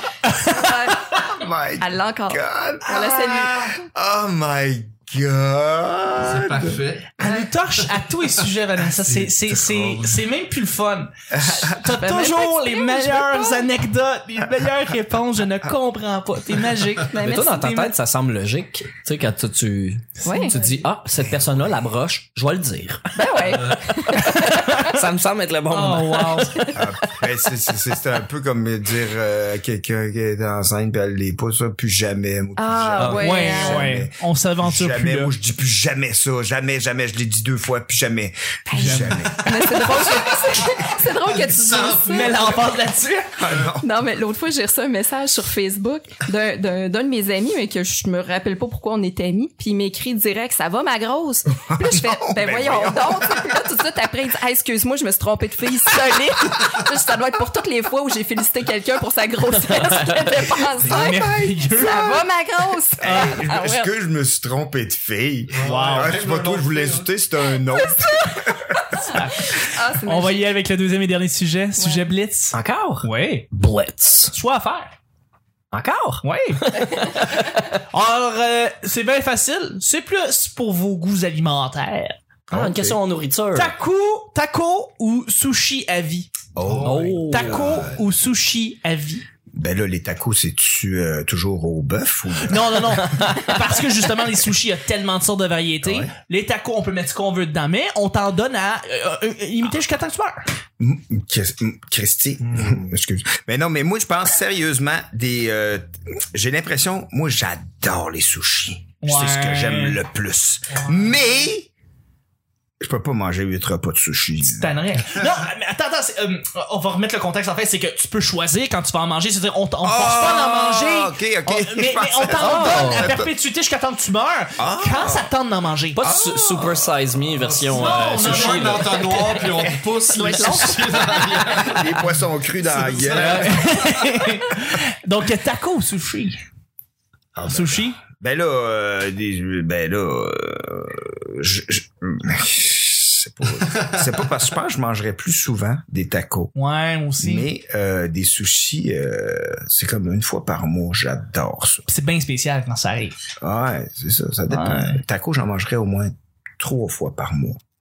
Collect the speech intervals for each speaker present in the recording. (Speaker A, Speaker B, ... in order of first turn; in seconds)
Speaker A: 0.4-3.8, 11.8-13.7, 17.1-17.8, 20.2-20.6, 23.1-24.9, 32.6-33.9, 38.7-42.6, 43.8-63.9, 67.8-70.4, 71.8-72.1, 130.3-131.6
Speaker B: 1.1-6.8, 11.3-11.8, 21.3-21.6, 26.7-39.8, 43.4-43.9, 51.5-53.5, 63.0-68.9, 82.5-83.0, 86.6-88.0, 89.5-93.1, 95.8-96.1, 100.8-111.7, 112.8-114.8, 119.8-123.3, 124.6-125.3, 126.0-127.0, 131.6-133.6, 137.3-146.5, 147.2-151.9, 153.4-157.6
Speaker C: 6.2-7.2, 9.0-10.2, 23.5-23.9, 39.2-42.6, 43.4-43.8, 65.5-67.1, 86.6-87.2, 102.4-102.9, 127.4-132.0, 132.7-134.1, 143.6-144.0
Speaker D: 7.2-17.9, 20.2-20.6, 24.2-24.9, 25.7-26.6, 33.0-35.3, 38.7-39.3, 42.1-43.5, 60.8-62.2, 63.0-63.4, 65.6-66.2, 69.1-73.5, 74.3-74.9, 76.2-77.0, 77.9-82.2, 83.5-86.3, 87.3-89.2, 92.5-100.5, 109.0-110.0, 110.7-111.2, 114.4-126.0, 127.7-129.4, 130.1-131.0, 133.1-136.4, 137.5-138.0, 146.6-147.5, 151.9-153.2, 154.5-155.0
Speaker E: 17.2-23.6, 24.1-26.8, 59.5-60.2, 72.5-74.3, 75.7-77.7, 82.5-83.7, 86.8-87.8, 122.4-123.1, 126.0-129.3